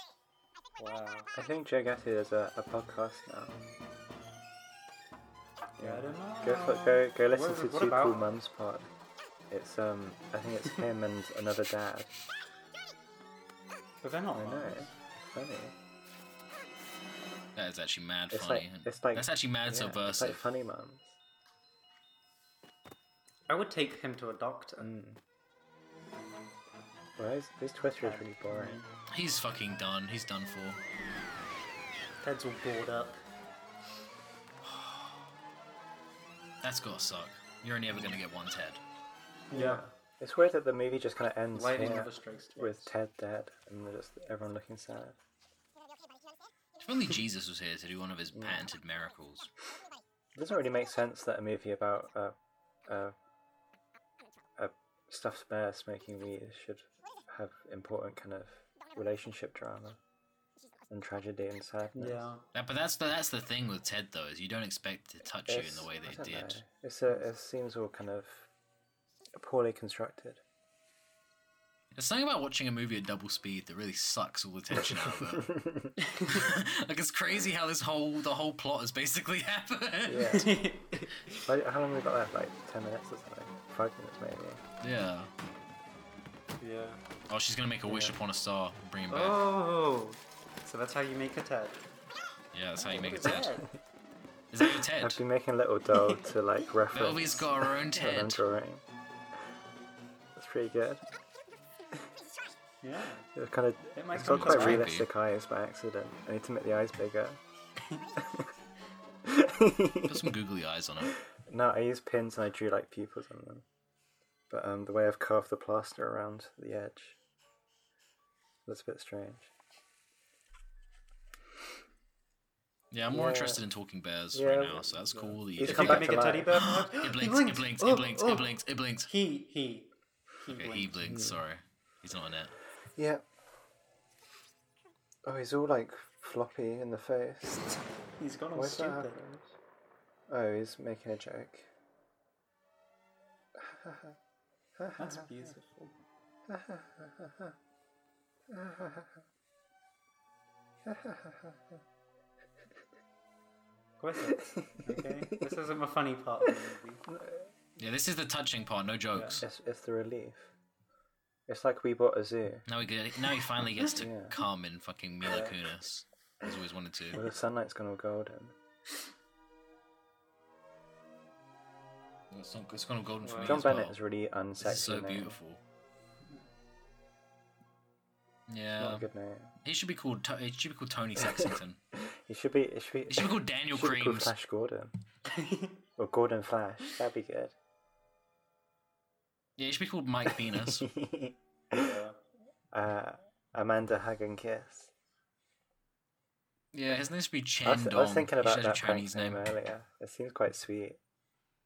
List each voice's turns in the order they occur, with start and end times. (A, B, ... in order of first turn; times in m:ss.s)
0:00.8-0:01.3 A
0:01.3-0:03.6 B
0:05.8-0:08.3 A
0:05.8-0:08.9 B
0:09.5-0:12.1 B
0:14.0-0:14.9 A
0:14.3-0:15.8 B
0:17.6-0:20.5 C
0:18.3-0:21.2 B
0:23.5-0:24.9 A
0:24.8-0:25.2 B
0:27.2-0:28.8 B
0:28.0-0:28.9 A
0:29.1-0:30.8 C
0:32.2-0:33.2 A
0:36.6-0:38.8 C
0:39.5-0:39.8 A
0:39.5-0:45.2 B
0:41.6-0:42.9 A
0:46.8-0:49.5 C
0:48.4-0:48.6 B
0:50.4-0:52.4 B
0:52.9-0:53.2 B
0:54.6-1:00.0 B
1:00.9-1:02.3 B
1:02.0-1:02.4 A
1:02.5-1:06.6 C
1:05.5-1:08.5 B
1:09.4-1:10.4 B
1:11.9-1:15.6 C
1:14.8-1:16.0 B
1:16.2-1:20.5 C
1:20.1-1:20.6 B
1:20.3-1:21.4 A
1:21.4-1:24.6 B
1:24.8-1:25.3 C
1:26.6-1:27.0 A
1:27.3-1:29.4 C
1:27.9-1:28.2 B
1:29.1-1:31.8 A
1:32.5-1:33.6 C
1:32.8-1:33.7 A
1:34.5-1:35.2 C
1:34.6-1:38.8 B
1:36.9-1:38.4 C
1:40.4-1:41.0 B
1:42.8-1:43.3 A
1:43.4-1:47.4 B
1:44.0-1:44.9 A
1:44.2-1:45.1 C
1:48.2-1:48.5 B
1:49.2-1:50.3 B
1:50.0-1:51.1 C
1:51.4-1:53.6 B
1:54.5-1:57.2 B
1:58.7-1:59.5 B
2:02.9-2:09.1 C
2:03.1-2:03.6 B
2:04.3-2:05.0 B
2:05.1-2:10.9 A
2:05.6-2:06.6 B
2:10.5-2:12.5 C
2:11.1-2:11.4 B
2:13.0-2:13.2 B
2:15.2-2:17.8 B
2:18.2-2:19.2 A
2:18.6-2:19.5 B
2:20.3-2:21.7 B
2:23.6-2:24.2 B
2:24.8-2:25.3 B
2:25.0-2:26.0 A
2:26.5-2:27.6 B
2:28.5-2:29.2 B
2:30.8-2:31.8 B
2:34.0-2:37.0 A
2:34.2-2:35.5 B
2:36.4-2:37.5 B
2:37.8-2:39.4 C
2:39.2-2:39.4 A
2:39.4-2:40.5 B
2:41.5-2:42.6 B
2:42.7-2:47.2 C
2:44.0-2:44.4 B
2:45.2-2:45.6 B
2:47.1-2:48.6 B
2:52.3-2:54.0 C
2:53.2-2:53.6 A
2:53.4-2:55.4 B
2:54.6-2:55.6 C
2:58.5-2:59.0 C
2:58.8-2:59.5 B
2:59.6-3:01.8 C
3:01.4-3:04.9 B
3:03.1-3:04.3 C
3:05.3-3:05.8 A
3:06.0-3:07.5 B
3:09.6-3:10.9 C
3:10.3-3:12.0 B
3:11.8-3:12.2 A
3:12.7-3:14.9 B
3:16.7-3:19.4 C
3:17.6-3:21.0 B